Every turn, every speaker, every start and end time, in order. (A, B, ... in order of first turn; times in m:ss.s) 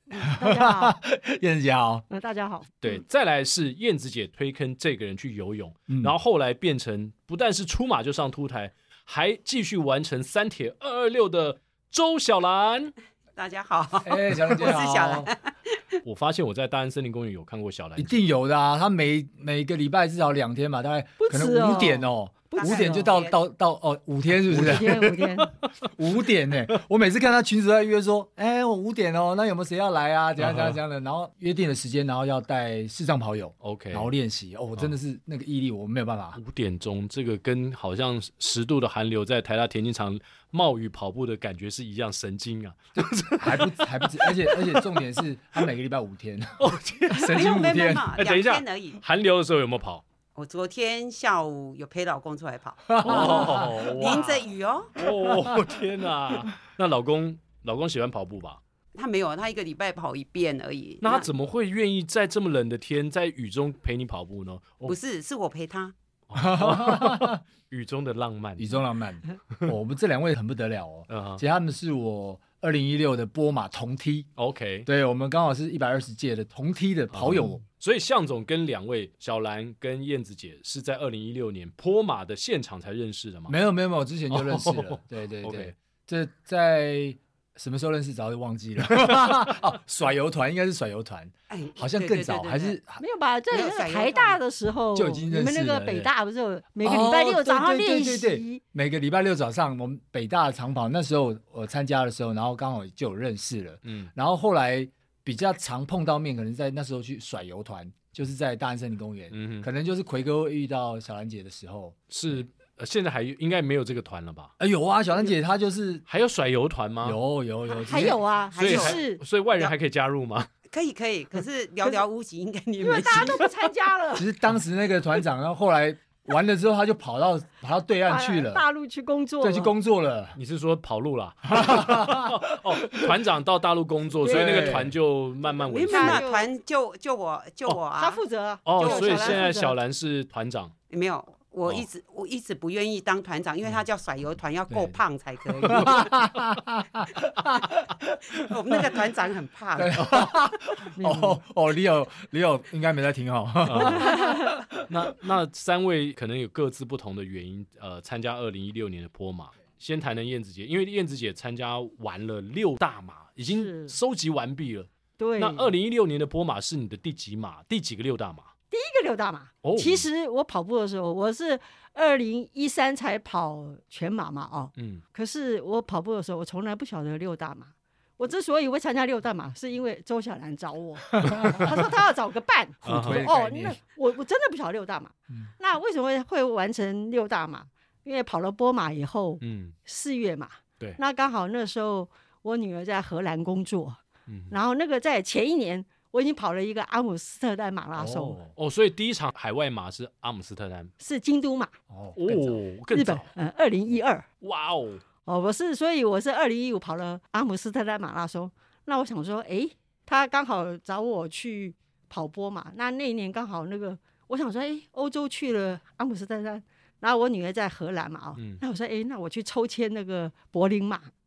0:00.1-0:02.0 A
0:00.2-0:01.0 B
0:02.1-0:02.7 B
0:02.8-0:12.9 C
0:05.9-0:06.1 A
0:13.4-0:16.0 D
0:14.0-0:15.3 A
0:16.0-0:18.2 C
0:18.0-0:25.1 A
0:21.2-0:23.1 B
0:22.5-0:23.4 D
0:24.5-0:25.9 C
0:24.5-0:25.5 B
0:25.9-0:36.4 A
0:30.4-0:30.8 C
0:33.6-0:34.1 C
0:36.4-0:45.0 C
0:43.4-0:46.6 A
0:46.6-0:50.0 C
0:47.1-0:49.0 D
0:47.1-0:48.1 A
0:50.4-0:54.9 D
0:52.9-0:53.7 A
0:53.0-0:58.6 C
0:58.9-1:01.3 D
1:01.0-1:05.0 C
1:04.9-1:05.9 D
1:06.3-1:08.7 C
1:06.3-1:07.4 A
1:08.6-1:14.3 A
1:11.1-1:11.4 C
1:14.4-1:14.9 C
1:14.8-1:17.6 A
1:17.1-1:23.6 C
1:23.5-1:33.0 A
1:24.3-1:25.7 C
1:31.5-1:32.8 D
1:33.0-1:38.6 B
1:33.5-1:34.4 D
1:34.9-1:36.1 A
1:36.8-1:52.0 A
1:43.8-1:44.1 C
1:49.3-1:49.7 C
1:52.1-1:54.5 C
1:54.6-1:56.0 A
1:56.1-1:57.2 C
1:57.0-1:58.2 A
1:57.8-1:59.0 D
1:57.9-1:59.2 B
1:58.6-2:00.5 C
2:00.7-2:03.4 D
2:02.8-2:04.3 B
2:04.2-2:08.6 A
2:08.1-2:09.7 B
2:09.4-2:10.4 A
2:10.4-2:16.2 C
2:11.5-2:12.3 A
2:12.9-2:13.1 A
2:14.2-2:14.8 B
2:14.2-2:14.9 A
2:15.6-2:18.2 D
2:15.9-2:16.5 B
2:17.9-2:19.7 B
2:18.6-2:20.7 C
2:18.8-2:19.5 D
2:20.9-2:26.2 D
2:24.7-2:25.0 A
2:25.6-2:29.0 A
2:28.4-2:30.3 D
2:29.8-2:34.6 A
2:30.9-2:31.4 B
2:33.6-2:34.1 C
2:33.8-2:34.6 B
2:34.8-2:48.5 C
2:43.4-2:43.9 B
2:45.2-2:45.7 B
2:48.7-3:18.4 B
2:49.6-2:50.0 C
2:54.8-2:55.0 C
3:01.2-3:01.7 A
3:01.3-3:01.6 C
3:02.8-3:03.8 A
3:02.8-3:03.2 C
3:09.4-3:09.8 C
3:14.3-3:14.5 C
3:18.0-3:20.9 C
3:18.0-3:18.5 A
3:21.0-3:21.7 B
3:21.9-3:22.6 A
3:22.1-3:23.3 C
3:22.9-3:24.2 B
3:24.4-3:25.0 C
3:25.2-3:41.1 B
3:38.4-3:38.6 C